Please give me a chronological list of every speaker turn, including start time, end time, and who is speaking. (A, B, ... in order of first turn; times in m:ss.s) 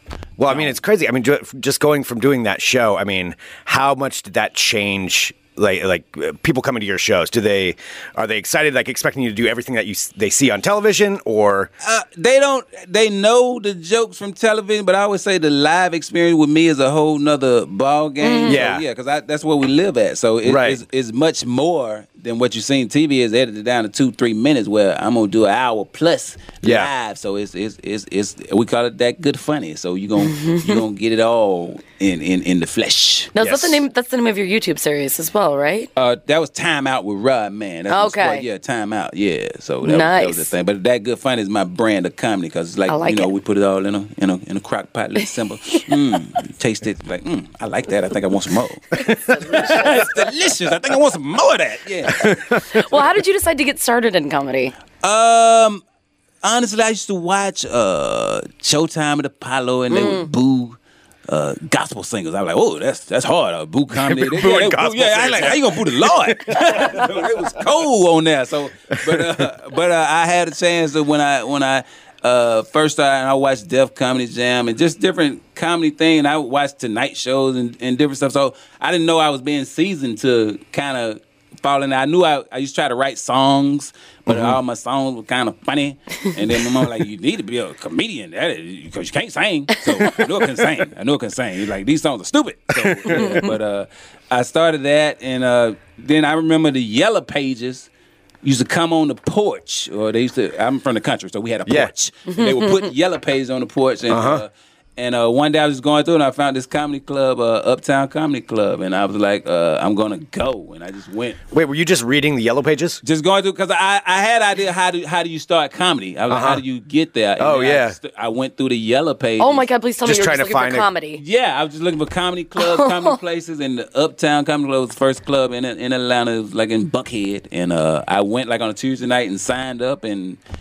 0:00.4-0:11.7 A
0:00.5-0:00.7 B
0:11.8-0:33.3 B
0:18.2-0:18.6 C
0:18.5-0:18.8 A
0:20.4-0:20.8 A
0:26.6-0:26.9 A
0:30.2-0:30.8 C
0:33.3-0:35.9 C
0:33.4-0:33.8 A
0:36.0-0:52.6 B
0:37.9-0:38.5 C
0:39.8-0:40.5 C
0:42.9-0:43.3 C
0:45.2-0:45.9 C
0:49.0-0:49.8 A
0:49.1-0:49.9 C
0:52.2-0:52.6 A
0:52.7-0:54.7 C
0:55.0-0:55.8 B
0:56.4-1:00.8 B
0:59.9-1:00.3 C
1:01.3-1:37.9 B
1:03.9-1:07.5 A
1:09.1-1:09.4 A
1:24.3-1:24.6 A
1:32.9-1:33.4 A
1:38.4-1:51.4 B
1:41.7-1:41.9 A
1:42.3-1:42.9 C
1:44.1-1:44.4 A
1:51.5-1:53.0 A
1:53.0-1:59.7 B
1:56.3-1:56.6 A
1:57.4-1:58.0 A
1:59.4-2:01.2 C
2:00.0-2:00.9 A
2:01.2-2:10.4 B
2:02.6-2:03.2 C